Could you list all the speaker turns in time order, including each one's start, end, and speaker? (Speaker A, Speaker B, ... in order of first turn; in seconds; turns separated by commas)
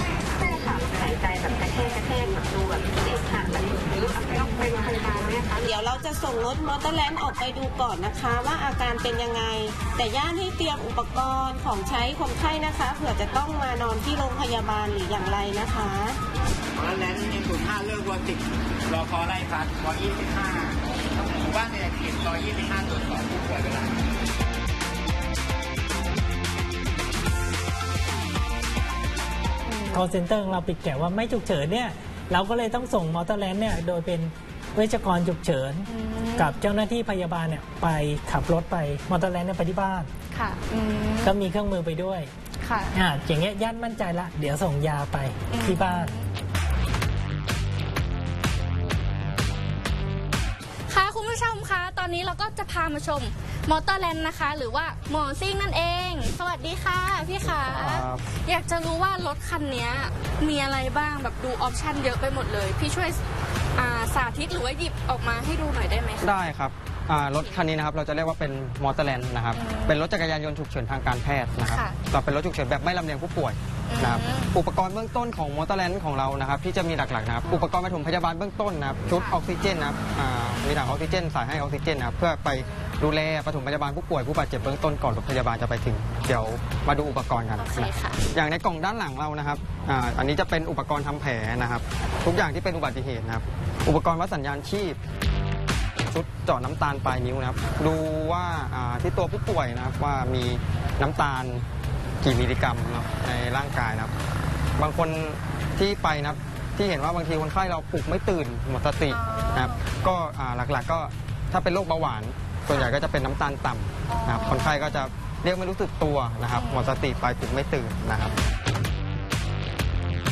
Speaker A: 0.4-16.2, Speaker B: 16.8-24.0, Speaker C: 29.7-30.0, Speaker D: 29.9-40.1, Speaker C: 35.9-36.6, Speaker C: 40.3-41.4, Speaker D: 41.2-42.3, Speaker C: 42.6-42.9, Speaker D: 42.9-46.1, Speaker C: 45.5-46.3, Speaker C: 50.9-63.2, Speaker E: 57.4-58.2, Speaker C: 63.8-66.5, Speaker E: 66.2-95.0, Speaker C: 67.2-67.7, Speaker C: 69.5-70.0, Speaker C: 71.6-72.0, Speaker C: 73.9-74.5, Speaker C: 79.1-79.4, Speaker C: 87.6-88.2, Speaker E: 96.1-101.6, Speaker E: 102.2-104.1, Speaker E: 104.8-118.3, Speaker C: 109.1-109.8, Speaker C: 114.1-115.1, Speaker C: 116.5-117.0